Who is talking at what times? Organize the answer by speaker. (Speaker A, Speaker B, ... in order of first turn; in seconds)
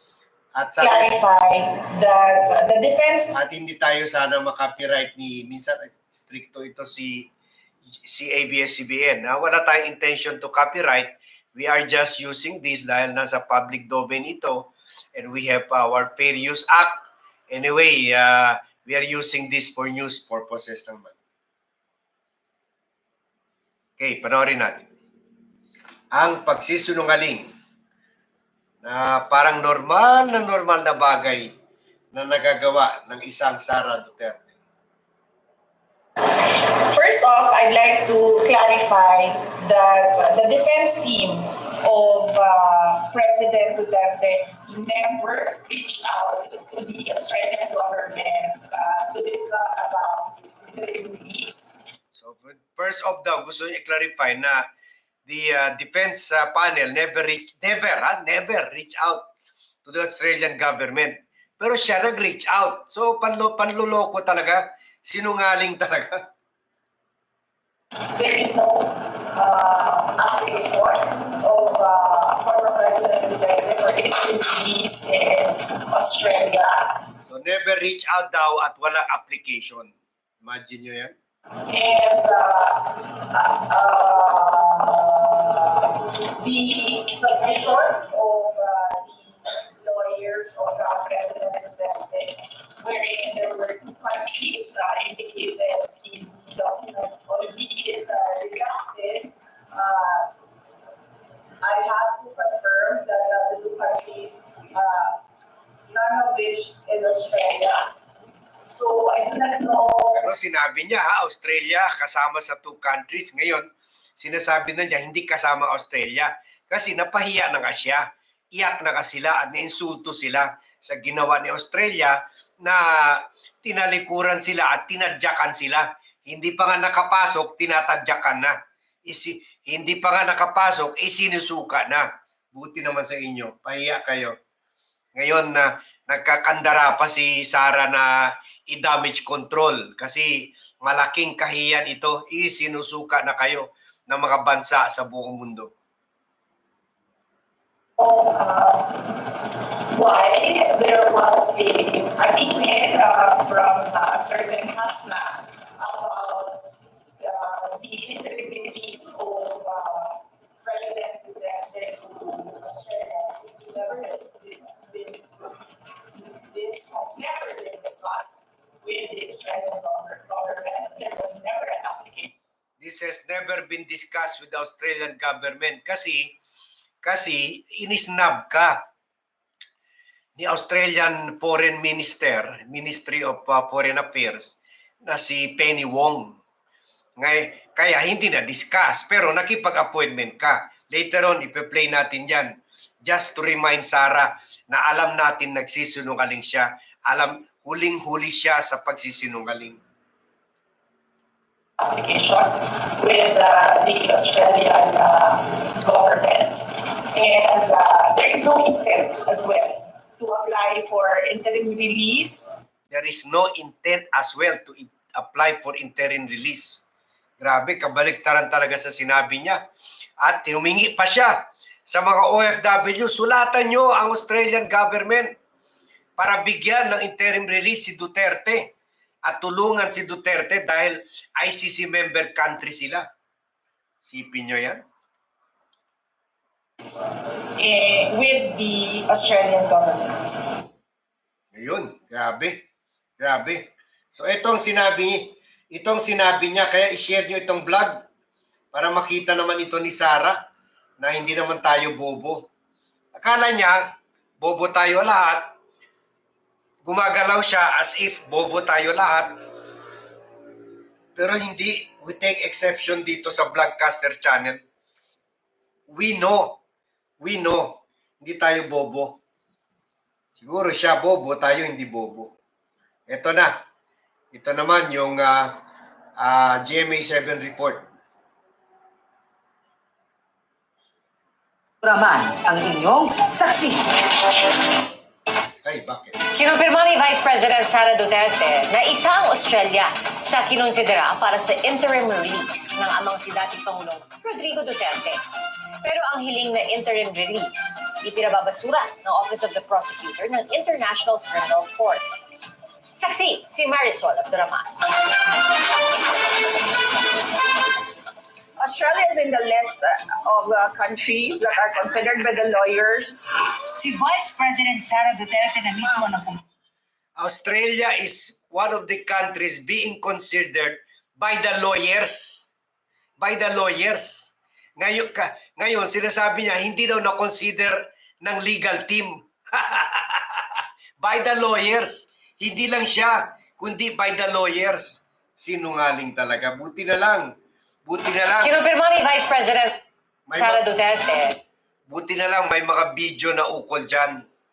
Speaker A: 0.5-1.1, 3.3-7.3, 8.0-21.1, 24.0-24.9, 26.1-27.5, 28.8-31.5, 32.1-34.5, 52.1-54.6, 55.2-59.2, 59.8-66.2, 77.2-81.2, 110.1-134.3, 135.1-145.7, 172.8-176.3, 177.0-178.8, 180.4-186.4, 187.2-199.8, 212.9-216.8, 217.4-219.6, 220.2-225.3, 226.2-228.7, 229.2-233.1, 234.0-234.8, 241.5-242.6, 243.2-248.0, 248.7-250.4, 251.0-252.4, 253.2-253.9, 254.4-255.5, 256.8-259.4, 261.1-264.6, 265.9-266.6, 267.2-269.2, 270.4-272.3, 273.1-273.6, 274.3-275.5, 276.2-277.9, 285.6-286.1, 317.2-322.5, 323.2-337.3, 337.9-338.5, 340.3-340.6, 341.9-344.2
Speaker B: 0.8-3.3, 36.2-51.7, 68.0-77.0, 81.7-100.3, 101.6-105.2, 105.9-107.9, 108.7-110.3, 148.0-165.6, 166.1-172.3, 201.8-212.5, 236.8-240.6
Speaker C: 281.8-284.0, 313.7-316.4
Speaker D: 286.3-295.2, 295.8-302.2, 302.9-304.8, 338.4-339.8, 340.4-341.4
Speaker E: 308.6-313.2